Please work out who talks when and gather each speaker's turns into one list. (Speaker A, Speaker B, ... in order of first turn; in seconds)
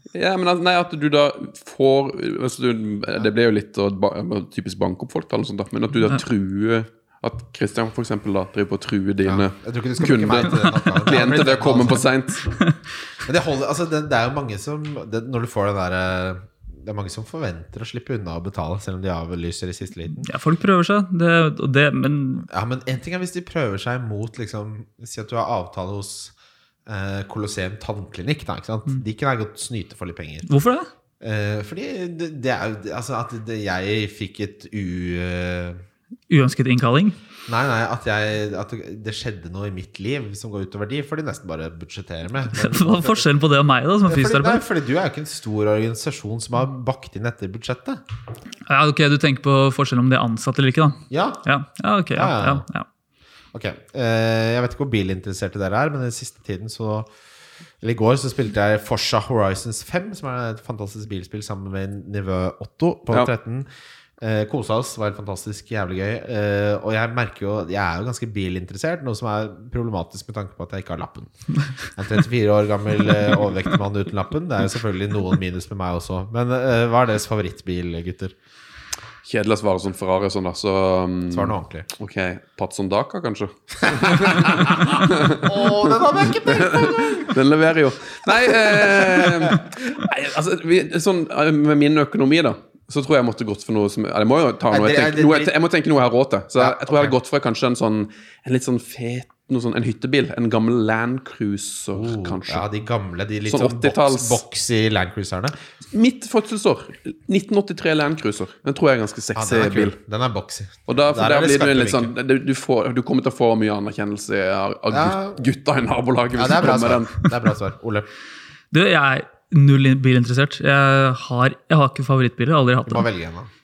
Speaker A: 0.1-12.4, 79.2-102.6, 103.5-104.4, 105.9-109.9, 110.9-117.3
Speaker B: 9.2-12.1, 13.2-20.3, 22.5-26.3, 26.9-30.5, 31.2-35.8, 37.5-43.2, 44.1-48.0, 51.1-51.4, 52.1-52.6, 53.5-57.1, 57.8-63.7, 64.2-71.3, 72.0-78.3, 81.3-81.9, 83.8-87.4, 88.4-89.6, 94.7-95.5, 96.5-97.1, 101.9-105.5, 109.3-112.1, 114.9-115.4, 116.3-118.1, 122.8-123.5
Speaker C: 20.2-22.5, 30.4-30.9, 36.3-37.2, 42.5-44.6, 48.7-52.9, 118.7-123.1